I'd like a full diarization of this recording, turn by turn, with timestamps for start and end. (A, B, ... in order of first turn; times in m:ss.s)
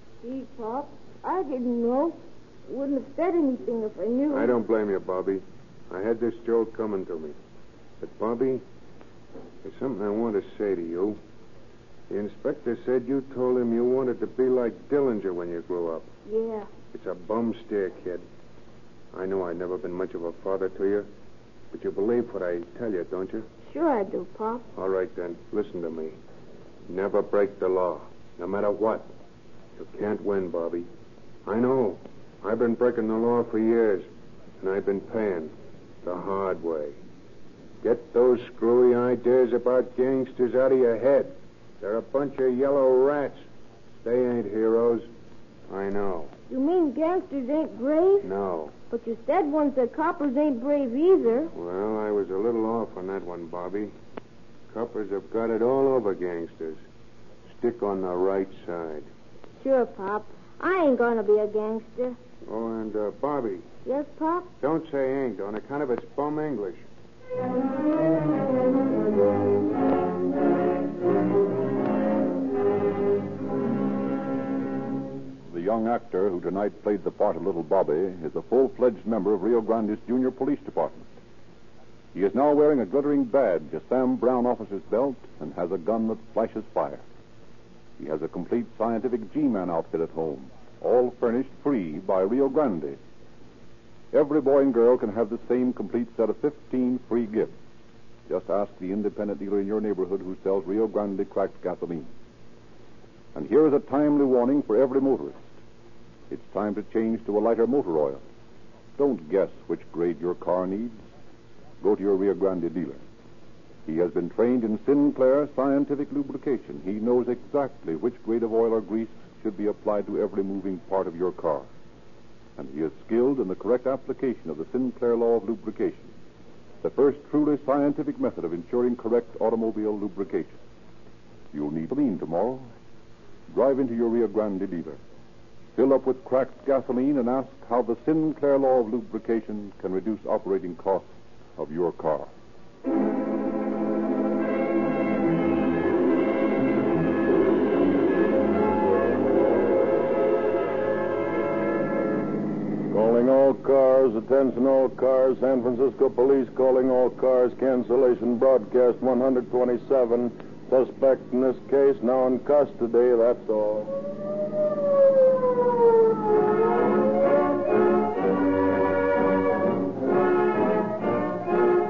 0:00.2-0:04.6 A
0:04.3-0:07.4 B
0:08.0-0:08.6 B
0:09.6-0:11.2 B
0:12.1-0:16.1 B
0:16.2-0:16.7 A
0:16.9-0:18.2 B
0:19.1-0:21.1 B
0:21.7-0:23.5 B
0:23.6-0:24.7 A
0:24.8-0:26.2 B
0:26.9-0:29.1 B
0:29.8-0:30.9 B
0:31.4-0:34.1 B
0:34.6-0:35.5 B
0:36.0-0:37.0 B
0:37.8-0:43.4 B
0:44.0-0:45.1 B
0:45.7-0:46.3 B
0:46.5-0:48.3 A
0:48.2-0:48.7 B
0:48.9-0:51.5 A
0:51.5-0:53.9 B
0:54.7-0:56.8 B
0:57.5-0:59.1 B
0:59.6-1:02.2 A
1:02.4-1:03.7 B
1:03.8-1:04.5 A
1:04.6-1:06.8 B
1:15.5-1:21.1 C
1:22.1-1:27.0 C
1:28.0-1:33.0 C
1:34.1-1:37.5 C
1:38.3-1:42.1 C
1:43.3-1:45.5 C
1:46.3-1:48.2 C
1:49.0-1:51.0 C
1:51.8-1:53.0 C
1:53.8-2:01.7 C
2:02.6-2:06.1 C
2:06.8-2:10.6 C
2:11.5-2:12.7 C
2:13.5-2:15.0 C
2:15.7-2:22.3 C
2:32.9-2:43.9 D